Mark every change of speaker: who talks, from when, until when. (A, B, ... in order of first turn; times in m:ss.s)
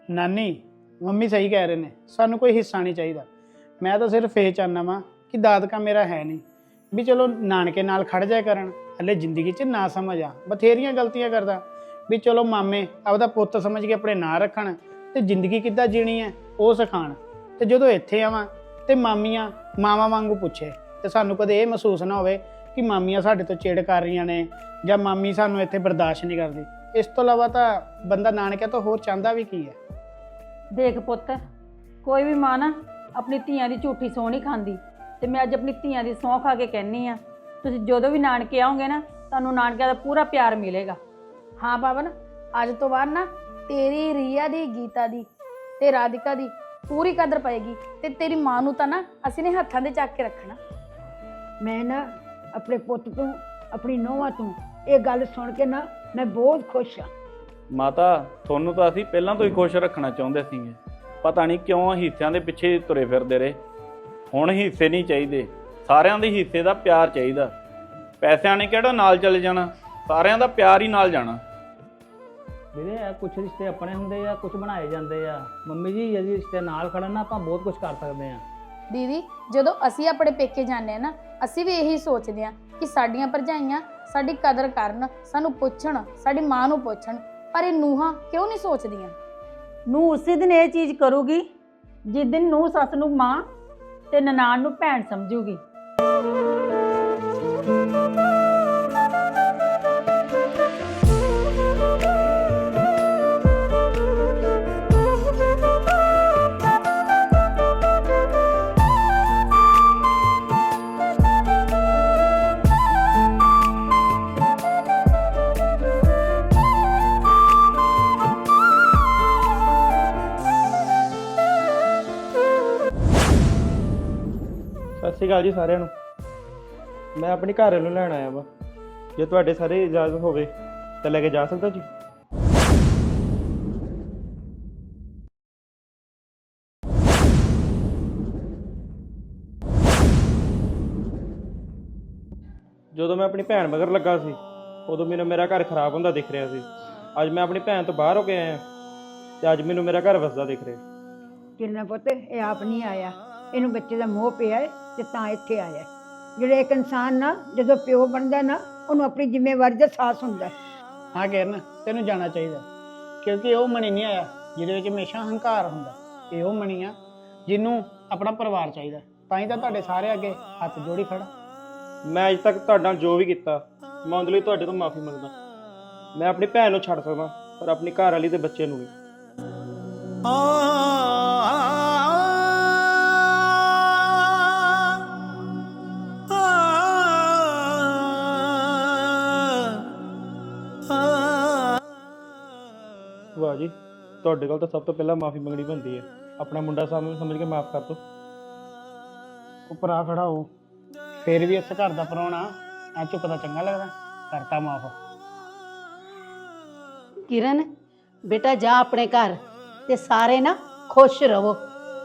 0:00.1-0:03.3 A
0:03.8-0:29.8 A
0:30.7-0:31.4 B
0:32.0-0:41.0 B
0:41.6-0:45.3 C
0:45.8-0:50.6 C
0:51.6-0:57.1 D
0:57.8-1:03.6 E
1:04.3-1:07.5 E
1:08.2-1:11.4 E
1:12.8-1:18.4 F
1:18.9-1:29.1 C
1:29.9-1:31.4 B
1:32.1-1:33.4 B
1:34.1-1:35.6 B
2:05.0-2:05.9 G
2:07.2-2:08.5 G
2:09.2-2:10.5 G
2:11.0-2:11.9 G
2:22.9-2:28.6 G
2:29.4-2:30.8 G
2:31.6-2:40.5 D
2:41.2-2:42.6 A
2:43.2-2:46.9 A
2:47.5-2:51.3 A
2:52.1-2:55.3 G
2:56.2-2:58.9 G
3:13.4-3:18.0 G
3:19.7-3:20.5 A
3:21.2-3:25.0 A
3:27.3-3:27.7 H
3:28.3-3:29.4 H
3:29.9-3:31.6 H